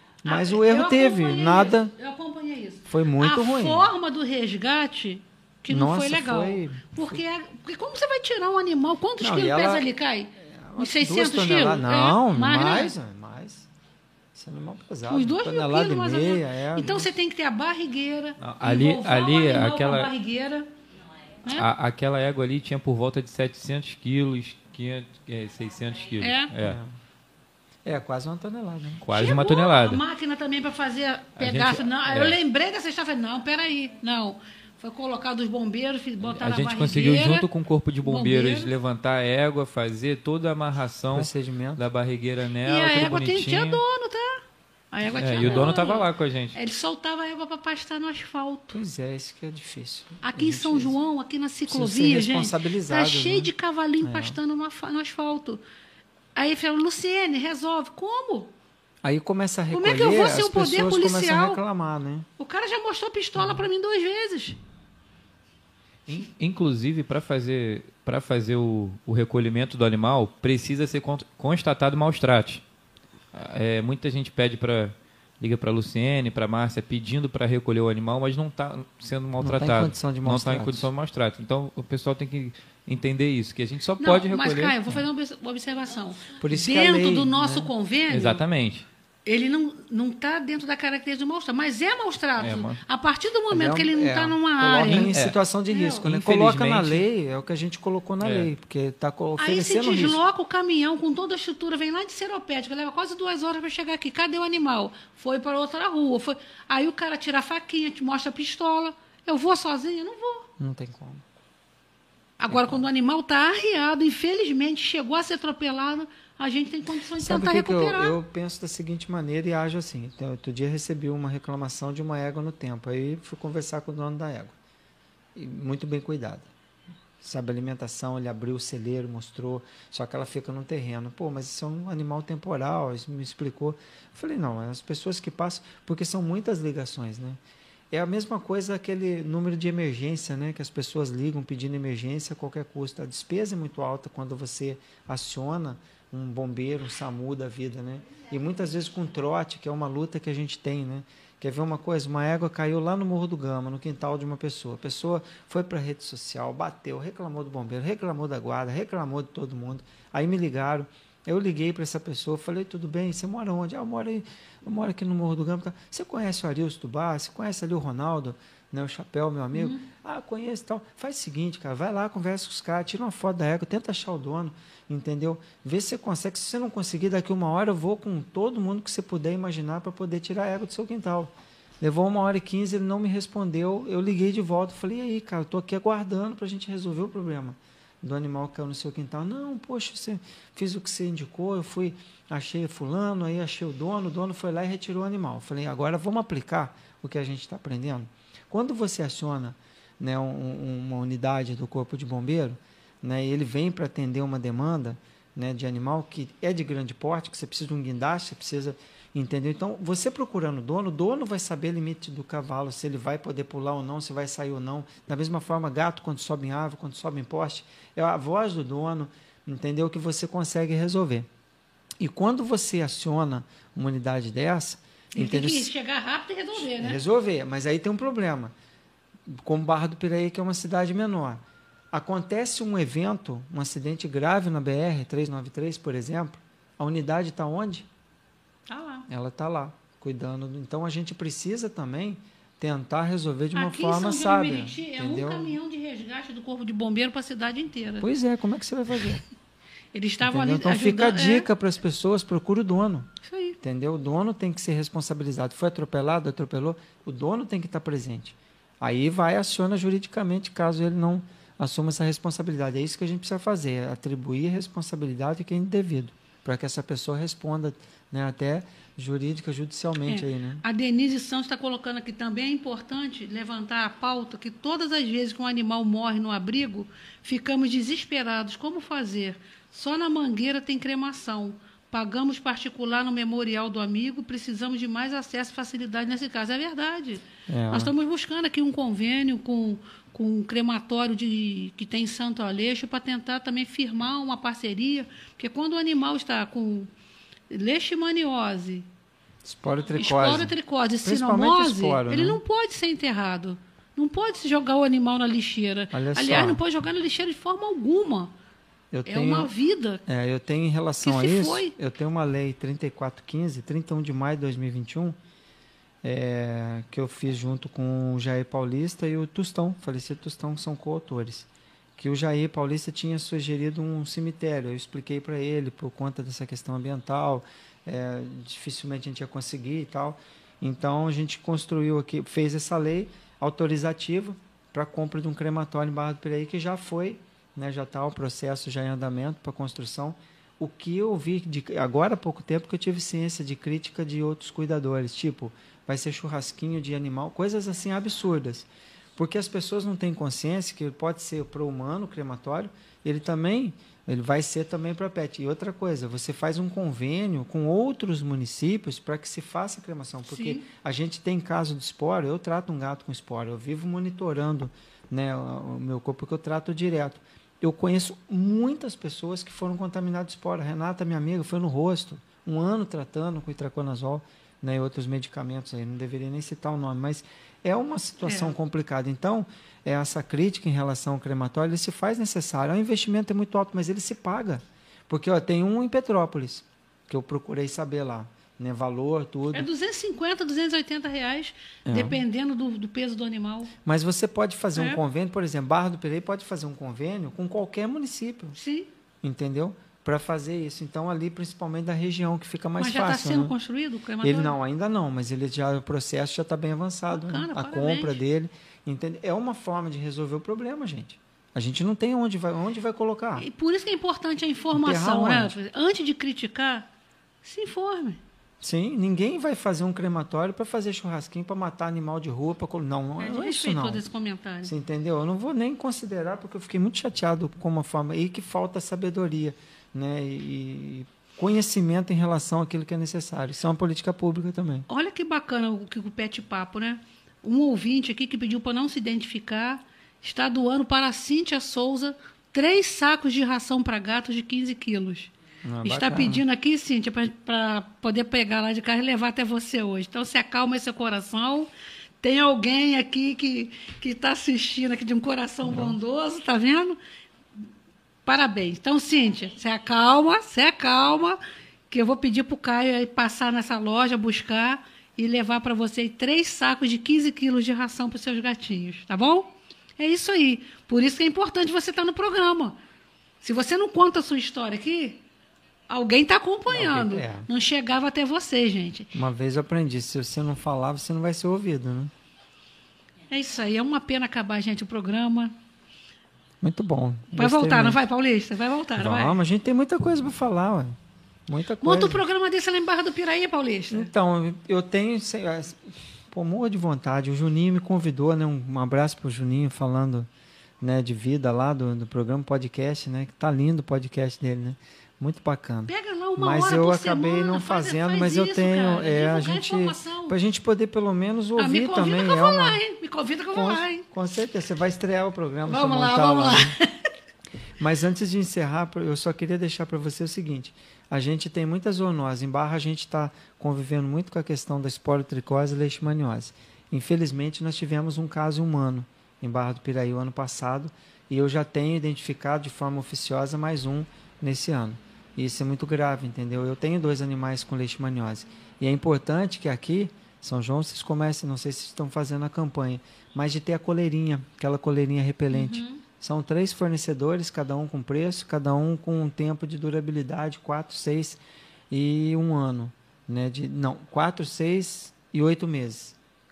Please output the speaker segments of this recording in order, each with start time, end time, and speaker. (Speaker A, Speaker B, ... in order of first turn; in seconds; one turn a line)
Speaker A: 0.2-1.9
Speaker B: 0.2-12.9
Speaker A: 2.9-3.9
Speaker A: 5.7-7.2
Speaker A: 9.2-13.7
Speaker A: 14.3-17.1
Speaker B: 15.1-20.7
Speaker C: 18.4-20.1
Speaker B: 21.4-21.7
Speaker C: 21.5-26.8
Speaker B: 26.2-26.5
Speaker A: 26.6-26.9
Speaker A: 27.8-29.1
Speaker C: 29.0-30.0
Speaker B: 29.1-37.5
Speaker C: 31.4-32.4
Speaker C: 36.2-43.8
Speaker B: 38.0-38.7
Speaker A: 41.1-41.8
Speaker B: 42.6-48.8
Speaker C: 45.1-46.6
Speaker A: 48.7-51.0
Speaker B: 50.2-55.6
Speaker A: 51.7-53.5
Speaker A: 54.0-54.4
Speaker B: 56.4-58.5
Speaker A: 59.0-62.3
Speaker B: 59.7-61.6
Speaker B: 62.4-64.6
Speaker C: 66.1-72.6
Speaker C: 73.3-85.0
Speaker A: 79.4-80.9
Speaker B: 84.0-88.4
Speaker A: 86.4-87.7
Speaker C: 88.1-88.9
Speaker B: 89.2-95.1
Speaker C: 92.4-92.8
Speaker A: 93.5-100.2
Speaker C: 94.9-95.3
Speaker B: 95.7-96.0
Speaker C: 96.0-97.0
Speaker C: 98.2-98.5
Speaker B: 99.4-110.5
Speaker A: 110.6-111.3
Speaker B: 112.4-118.2
Speaker A: 112.5-112.8
Speaker A: 117.2-124.5
Speaker A: 125.3-126.5
Speaker A: 127.2-137.4
Speaker A: 137.9-221.3
Speaker B: 169.5-169.9
Speaker A: 222.0-225.7
Speaker B: 225.1-227.0
Speaker A: 226.6-228.5
Speaker A: 229.3-237.9
Speaker B: 238.7-239.1
Speaker A: 239.1-245.6
Speaker B: 243.6-248.1
Speaker A: 248.0-249.2
Speaker B: 249.9-251.5
Speaker A: 250.2-253.1
Speaker B: 253.2-253.6
Speaker A: 253.6-270.6
Speaker B: 270.1-296.9
Speaker A: 287.5-287.9
Speaker B: 297.5-298.9
Speaker A: 299.4-302.4
Speaker B: 300.0-308.3
Speaker A: 305.9-306.6
Speaker A: 308.9-309.5
Speaker B: 309.1-310.0
Speaker A: 310.1-315.2
Speaker B: 311.0-311.7
Speaker A: 316.0-389.7
Speaker B: 360.3-360.7
Speaker B: 378.2-378.6
Speaker B: 389.5-393.7
Speaker A: 391.9-392.2
Speaker A: 393.8-398.6
Speaker B: 398.6-398.9
Speaker A: 399.2-403.6
Speaker B: 402.8-404.6
Speaker A: 404.2-413.5
Speaker B: 407.1-408.2
Speaker B: 413.4-416.9
Speaker A: 414.7-415.6
Speaker B: 417.4-418.2
Speaker A: 418.6-424.0
Speaker B: 423.2-424.7
Speaker A: 424.6-434.9
Speaker B: 434.9-445.3
Speaker A: 445.6-446.4
Speaker B: 445.8-451.7
Speaker B: 452.2-457.0
Speaker A: 455.6-456.0
Speaker B: 458.2-472.8
Speaker B: 473.4-475.2
Speaker B: 475.9-479.1
Speaker A: 476.7-477.5
Speaker A: 479.1-482.1
Speaker B: 483.3-485.6
Speaker A: 486.6-488.0
Speaker B: 487.3-489.4
Speaker A: 489.0-490.9
Speaker A: 491.5-492.2
Speaker B: 491.8-494.1
Speaker A: 493.9-500.3
Speaker A: 500.8-512.8
Speaker B: 505.9-510.4
Speaker B: 511.6-514.0
Speaker A: 513.5-516.8
Speaker B: 515.7-516.9
Speaker A: 517.8-551.4
Speaker B: 545.5-546.0
Speaker A: 551.9-556.2